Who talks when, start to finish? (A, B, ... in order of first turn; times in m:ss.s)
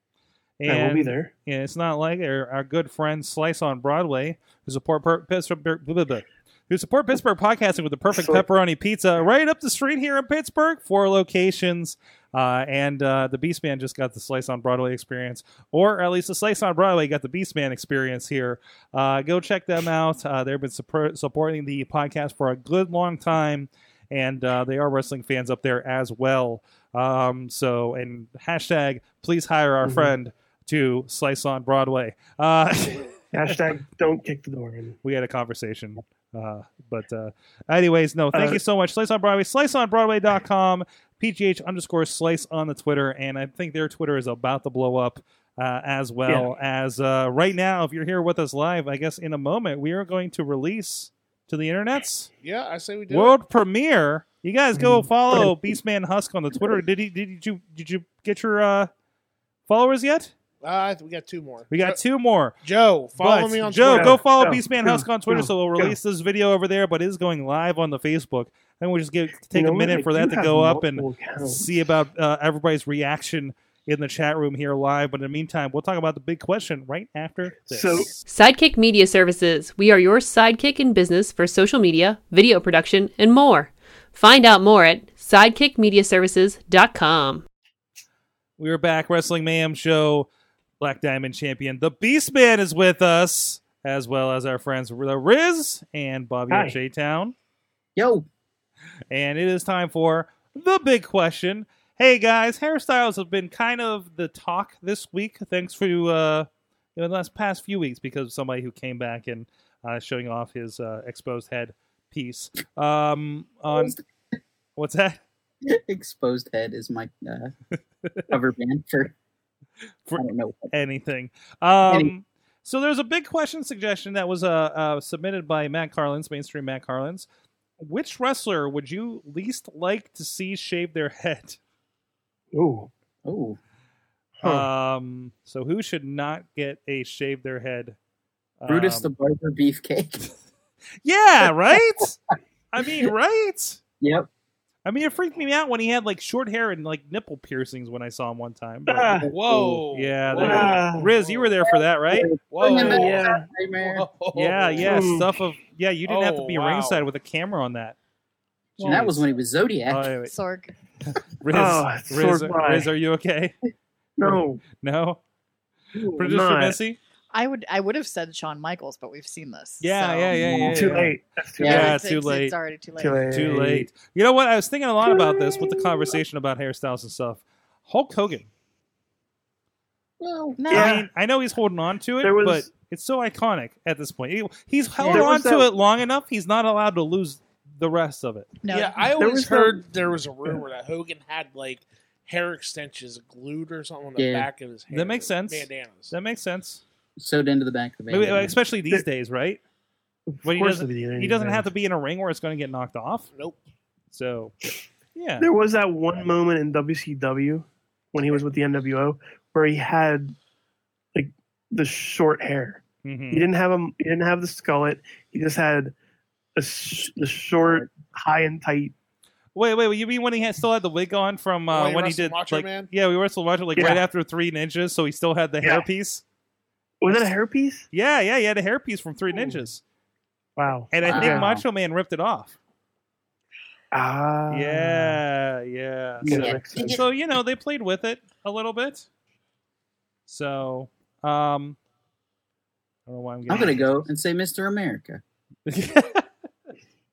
0:00.6-0:33.5 A
0:00.7-0:01.3 B
0:08.1-0:08.4 B
0:29.8-0:30.1 B
0:33.3-0:35.0 B
0:35.0-0:52.3 A
0:38.3-0:38.6 B
0:52.4-0:53.4 C
0:53.1-0:58.9 A
0:54.8-0:55.7 B
0:59.7-1:00.3 A
1:00.6-1:02.0 C
1:01.7-1:02.6 A
1:02.6-1:04.2 C
1:03.2-1:18.2 A
1:03.8-1:06.0 B
1:09.5-1:11.7 B
1:17.6-1:18.1 B
1:18.2-1:27.5 D
1:28.6-1:30.3 A
1:30.8-1:37.4 A
1:36.5-1:36.8 B
1:38.0-1:38.3 E
1:39.1-1:54.0 A
1:53.7-1:54.0 E
1:54.8-1:55.2 A
1:55.6-1:57.5 E
1:58.3-1:59.2 E
2:00.0-2:07.3 A
2:00.2-2:00.7 E
2:01.9-2:02.1 E
2:07.8-2:11.6 A
2:12.5-2:12.9 B
2:13.2-2:13.6 E
2:14.4-2:14.7 B
2:14.4-2:18.0 A
2:18.6-2:19.1 A
2:18.7-2:20.3 E
2:21.0-2:22.2 A
2:22.7-2:23.8 A
2:24.0-2:24.3 E
2:24.8-2:29.2 A
2:28.9-2:29.3 B
2:29.2-2:29.8 E
2:29.3-2:31.5 C
2:29.9-2:32.3 A
2:30.4-2:31.1 B
2:31.7-2:34.1 E
2:32.5-2:35.0 C
2:32.7-2:33.5 B
2:34.3-2:38.0 A
2:34.8-2:35.3 B
2:36.0-2:37.1 C
2:38.8-2:39.3 A
2:38.8-2:40.1 E
2:39.9-2:40.3 A
2:40.2-2:40.7 F
2:41.2-2:43.6 A
2:41.5-2:42.9 B
2:44.2-2:44.6 B
2:44.2-2:45.2 A
2:45.9-2:46.8 B
2:46.2-2:47.0 A
2:47.3-2:50.9 F
2:49.8-2:52.6 A
2:50.4-2:52.0 B
2:51.6-2:51.9 E
2:51.6-2:53.3 F
2:53.0-2:53.9 B
2:53.3-2:58.5 A
2:55.0-2:56.2 B
3:00.2-3:00.6 E
3:00.6-3:01.0 F
3:00.7-3:01.1 B
3:00.7-3:08.6 A
3:02.2-3:02.7 B
3:05.0-3:05.3 E
3:05.0-3:05.7 B
3:08.6-3:09.1 F
3:08.7-3:16.1 C
3:09.1-3:09.9 B
3:14.2-3:14.5 E
3:14.9-3:16.8 A
3:17.2-3:18.6 E
3:18.1-3:19.6 A
3:20.3-3:21.7 B
3:20.4-3:23.3 A
3:24.1-3:24.5 A
3:25.2-3:25.5 A
3:25.4-3:30.4 B
3:31.1-3:35.9 B
3:33.0-3:33.5 A
3:36.6-3:38.9 B
3:39.6-3:46.2 A
3:41.7-3:42.9 C
3:43.8-3:44.0 B
3:47.0-3:47.9 B
3:47.1-3:47.4 A
3:47.9-3:49.8 A
3:49.3-3:49.6 B
3:50.6-3:51.5 B
3:50.9-3:52.6 A
3:51.0-3:51.6 E
3:53.9-3:55.2 B
3:54.5-3:59.1 A
3:56.2-3:57.0 B
3:56.2-3:57.0 E
4:00.3-4:01.8 A
4:03.1-4:04.1 A
4:03.5-4:05.2 E
4:05.7-4:06.3 A